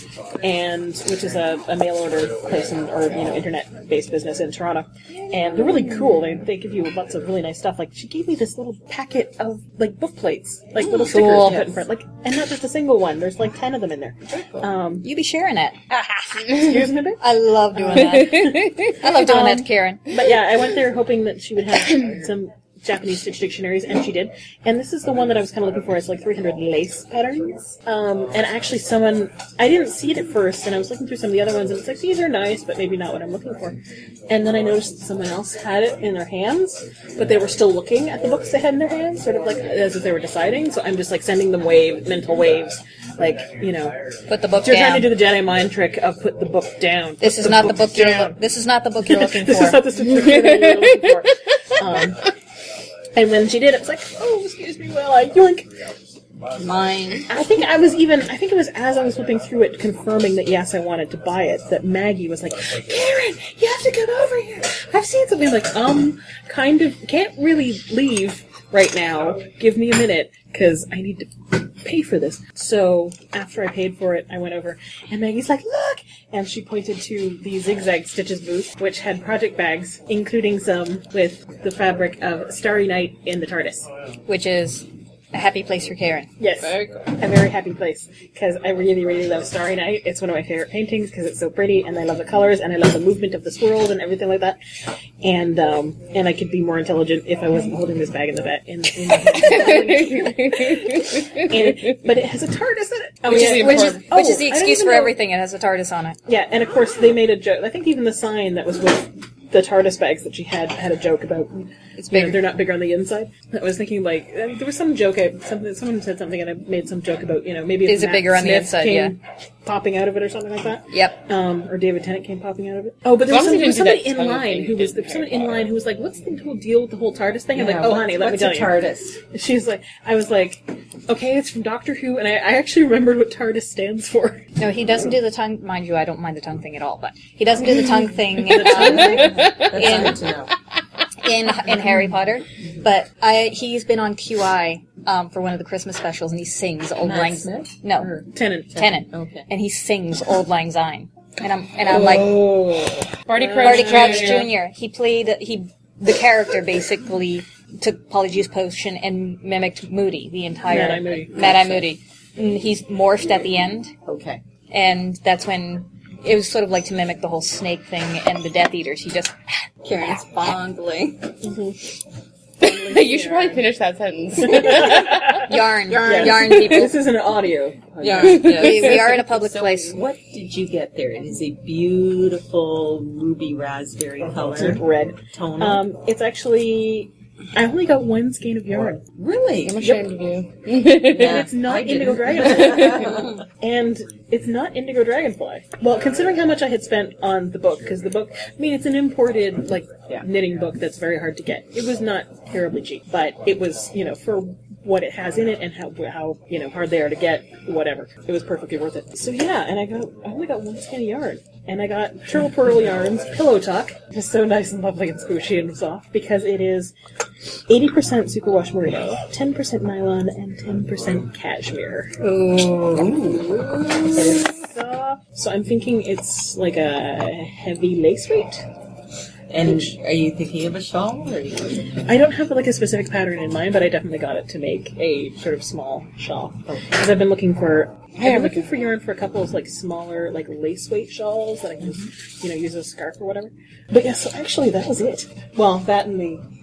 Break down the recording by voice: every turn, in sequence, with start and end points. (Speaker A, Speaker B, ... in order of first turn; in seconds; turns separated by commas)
Speaker A: 0.4-15.1, Speaker B: 11.1-11.6, Speaker B: 15.0-15.8, Speaker A: 15.9-17.2, Speaker B: 17.2-20.1, Speaker A: 17.8-44.0, Speaker C: 18.2-18.7, Speaker B: 44.3-45.1, Speaker A: 44.6-48.4, Speaker B: 47.2-49.8, Speaker A: 49.0-52.3, Speaker C: 50.1-51.0, Speaker A: 53.1-55.7, Speaker D: 56.5-57.3, Speaker A: 57.3-83.9, Speaker B: 84.3-86.3, Speaker A: 86.4-94.6, Speaker D: 86.6-87.1, Speaker A: 95.2-105.2, Speaker C: 99.3-102.0, Speaker C: 103.3-104.1, Speaker B: 103.3-106.2, Speaker A: 106.3-134.4, Speaker B: 112.0-112.4, Speaker B: 117.9-119.2, Speaker B: 120.9-121.2, Speaker C: 123.3-125.7, Speaker E: 127.5-129.2, Speaker B: 134.6-140.2, Speaker A: 138.5-139.3, Speaker E: 138.6-140.6, Speaker C: 139.2-139.7, Speaker B: 141.2-148.1, Speaker E: 147.0-149.5, Speaker A: 148.3-148.7, Speaker B: 148.8-152.4, Speaker A: 151.9-154.5, Speaker C: 153.3-154.5, Speaker B: 153.6-163.9, Speaker A: 160.7-161.5, Speaker E: 164.1-164.4, Speaker B: 164.7-169.6, Speaker D: 169.8-171.3, Speaker A: 171.4-171.8, Speaker A: 172.6-173.7, Speaker C: 172.6-175.4, Speaker A: 174.4-175.4, Speaker B: 175.4-176.9, Speaker D: 175.9-176.8, Speaker A: 176.0-178.8, Speaker D: 178.0-179.0, Speaker B: 178.4-180.0, Speaker E: 178.4-185.9, Speaker A: 184.5-189.0, Speaker E: 189.2-190.1, Speaker C: 189.7-191.5, Speaker E: 191.0-193.3, Speaker A: 191.1-216.9, Speaker C: 192.4-193.0, Speaker A: 217.7-222.2, Speaker D: 222.9-224.4, Speaker E: 222.9-223.6, Speaker A: 224.1-228.6, Speaker E: 229.5-231.8, Speaker A: 232.1-246.4, Speaker C: 238.2-238.7, Speaker E: 241.8-242.1